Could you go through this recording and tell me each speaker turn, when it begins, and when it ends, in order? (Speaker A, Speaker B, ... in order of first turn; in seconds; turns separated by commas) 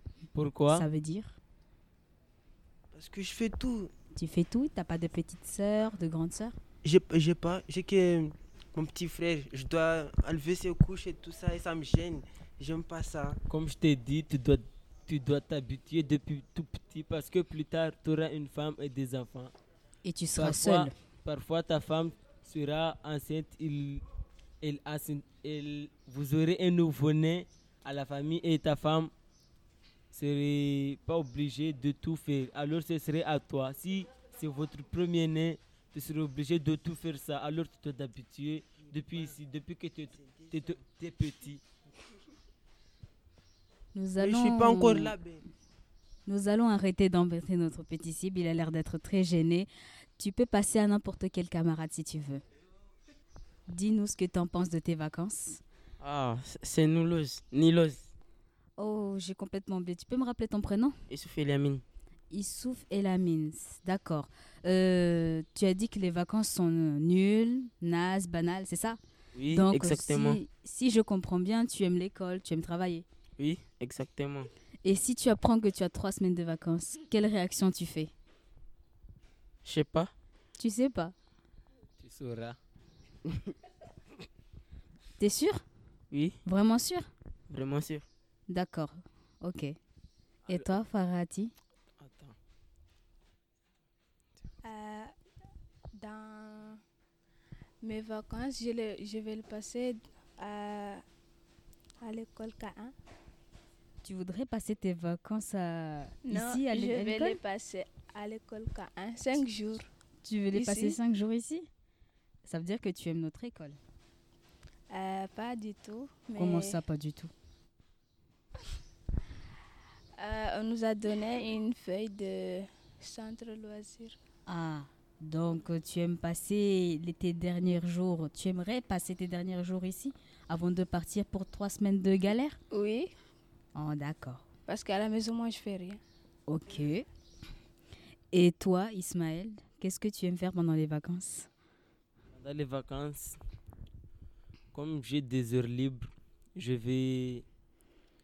Speaker A: 0.3-0.9, Speaker B: 0.7-1.4, Speaker C: 2.9-3.9, Speaker B: 4.2-6.6, Speaker C: 6.8-13.4, Speaker A: 13.5-19.5, Speaker B: 20.1-20.9, Speaker A: 20.4-24.0, Speaker A: 24.6-29.1, Speaker A: 30.1-41.6, Speaker C: 40.2-40.8, Speaker B: 43.9-45.1, Speaker C: 44.2-45.4, Speaker B: 46.3-52.4, Speaker B: 53.7-55.6, Speaker D: 56.0-58.1, Speaker B: 58.8-61.0, Speaker D: 61.1-61.8, Speaker B: 62.3-69.0, Speaker D: 69.4-70.4, Speaker B: 69.5-73.1, Speaker D: 73.4-74.5, Speaker B: 74.8-78.1, Speaker D: 79.7-80.1, Speaker B: 80.6-81.2, Speaker A: 82.0-82.6, Speaker B: 85.2-85.6, Speaker D: 86.1-86.4, Speaker B: 86.5-87.1, Speaker D: 87.5-88.0, Speaker B: 88.5-89.8, Speaker B: 90.5-91.5, Speaker A: 92.0-92.4, Speaker E: 94.6-95.1, Speaker E: 96.0-96.8, Speaker E: 97.8-101.0, Speaker E: 102.0-102.9, Speaker B: 104.0-107.4, Speaker E: 106.2-109.9, Speaker B: 110.2-111.7, Speaker E: 110.5-111.0, Speaker B: 112.5-113.8, Speaker E: 114.9-116.8, Speaker B: 116.4-117.3, Speaker E: 120.2-124.2, Speaker B: 124.5-132.6, Speaker E: 132.7-133.1, Speaker B: 133.8-134.4, Speaker E: 134.7-136.0, Speaker B: 136.5-137.1, Speaker B: 138.3-141.5, Speaker A: 142.3-143.4, Speaker A: 144.7-147.4